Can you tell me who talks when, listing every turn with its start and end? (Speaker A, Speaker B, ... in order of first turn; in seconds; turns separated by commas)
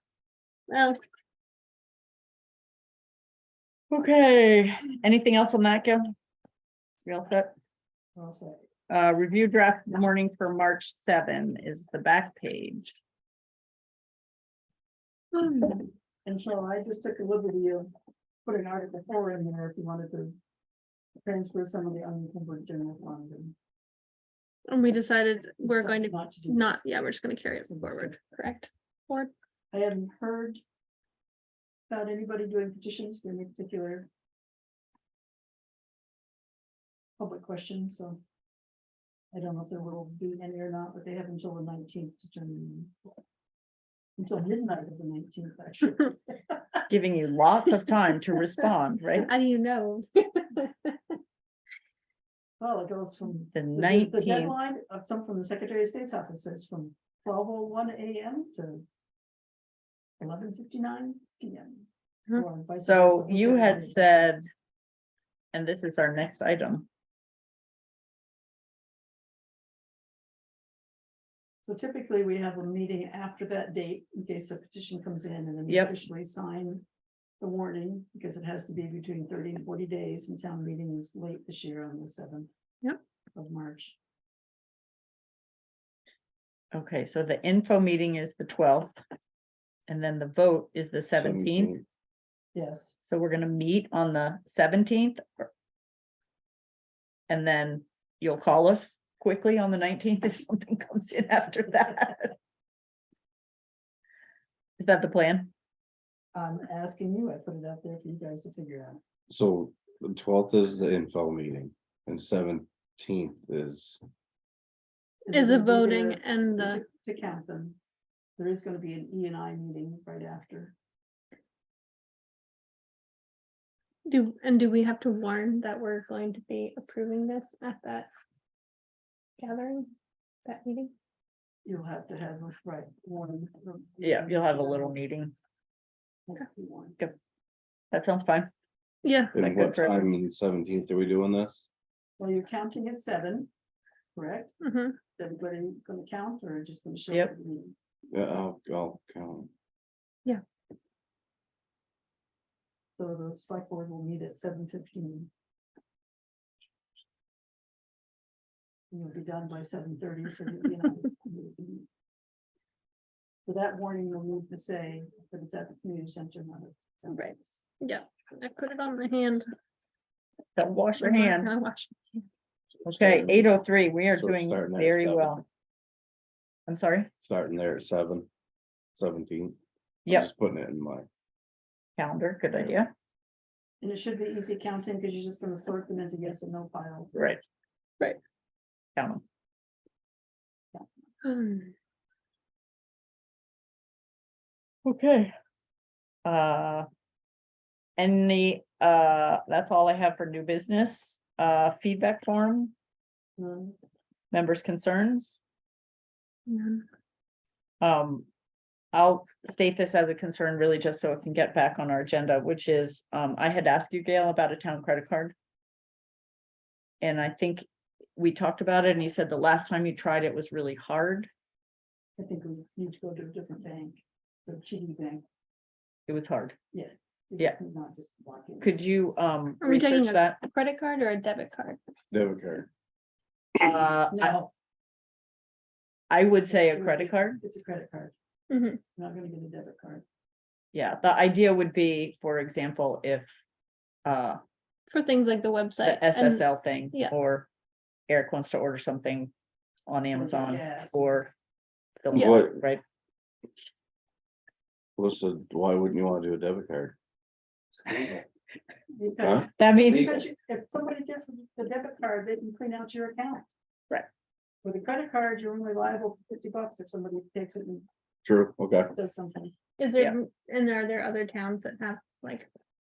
Speaker A: 0.7-1.0, Speaker B: 3.9-6.1, Speaker B: 7.1-7.5, Speaker C: 8.2-8.6, Speaker B: 8.9-12.9, Speaker A: 15.3-15.9, Speaker C: 16.3-17.9, Speaker C: 18.5-20.4, Speaker C: 21.2-23.6, Speaker A: 24.7-29.3, Speaker C: 25.6-26.7, Speaker C: 27.6-28.2, Speaker C: 29.7-30.6, Speaker C: 31.9-34.1, Speaker C: 37.2-38.2, Speaker C: 39.3-42.9, Speaker C: 44.2-46.6, Speaker B: 46.9-49.3, Speaker A: 49.2-51.0, Speaker C: 52.6-58.9, Speaker B: 53.5-54.5, Speaker C: 60.2-64.3, Speaker B: 62.7-64.5, Speaker B: 65.5-66.9, Speaker C: 71.6-76.8, Speaker B: 75.7-75.9, Speaker C: 77.4-82.5, Speaker C: 83.4-84.0, Speaker B: 86.7-89.0, Speaker B: 89.9-91.7, Speaker D: 91.2-91.8, Speaker C: 92.5-93.0, Speaker B: 93.0-95.5, Speaker B: 97.3-102.3, Speaker B: 104.8-105.5, Speaker C: 106.3-109.0, Speaker D: 109.3-114.0, Speaker C: 115.3-117.8, Speaker A: 115.3-116.8, Speaker C: 118.4-120.7, Speaker A: 124.0-128.1, Speaker A: 129.4-129.9, Speaker A: 130.4-130.9, Speaker C: 131.7-135.0, Speaker B: 134.0-135.3, Speaker C: 136.3-137.0, Speaker B: 137.9-138.5, Speaker A: 139.0-139.4, Speaker B: 139.3-140.1, Speaker D: 139.3-141.7, Speaker C: 142.2-143.5, Speaker C: 144.2-144.6, Speaker A: 144.6-145.0, Speaker C: 145.2-147.7, Speaker D: 148.1-149.5, Speaker C: 153.0-155.3, Speaker C: 158.9-161.9, Speaker C: 163.5-167.6, Speaker A: 167.1-169.5, Speaker B: 170.6-171.5, Speaker A: 171.0-172.3, Speaker D: 172.8-173.5, Speaker B: 172.8-175.4, Speaker D: 174.2-175.4, Speaker B: 176.7-177.1, Speaker D: 177.2-178.3, Speaker D: 178.9-181.1, Speaker B: 182.0-182.9, Speaker C: 183.8-187.4, Speaker B: 189.0-189.2, Speaker A: 191.2-191.7, Speaker B: 194.8-195.3, Speaker B: 196.2-196.9, Speaker B: 198.0-202.7, Speaker C: 203.4-203.8, Speaker B: 204.3-205.4, Speaker A: 206.5-206.8, Speaker B: 207.8-208.3, Speaker B: 208.9-215.3, Speaker B: 217.0-221.3, Speaker C: 222.2-225.2, Speaker B: 226.1-226.6, Speaker C: 226.7-229.1, Speaker B: 228.6-230.4, Speaker A: 229.6-231.8, Speaker D: 232.1-232.7, Speaker B: 233.6-234.4, Speaker C: 234.1-234.5, Speaker B: 236.1-237.4, Speaker C: 236.5-238.2, Speaker A: 238.5-238.8, Speaker C: 238.9-240.0, Speaker B: 240.7-243.3, Speaker B: 244.1-244.4, Speaker A: 244.9-247.2, Speaker B: 245.8-247.5, Speaker B: 248.1-249.3, Speaker B: 249.9-251.3, Speaker C: 250.1-251.1, Speaker B: 252.0-252.8, Speaker D: 252.1-252.6, Speaker A: 252.2-252.4, Speaker D: 255.0-257.0, Speaker C: 258.9-263.5, Speaker D: 259.2-259.5, Speaker B: 259.6-260.2, Speaker C: 264.6-267.9, Speaker D: 268.2-268.9, Speaker C: 268.9-269.5, Speaker A: 269.8-272.5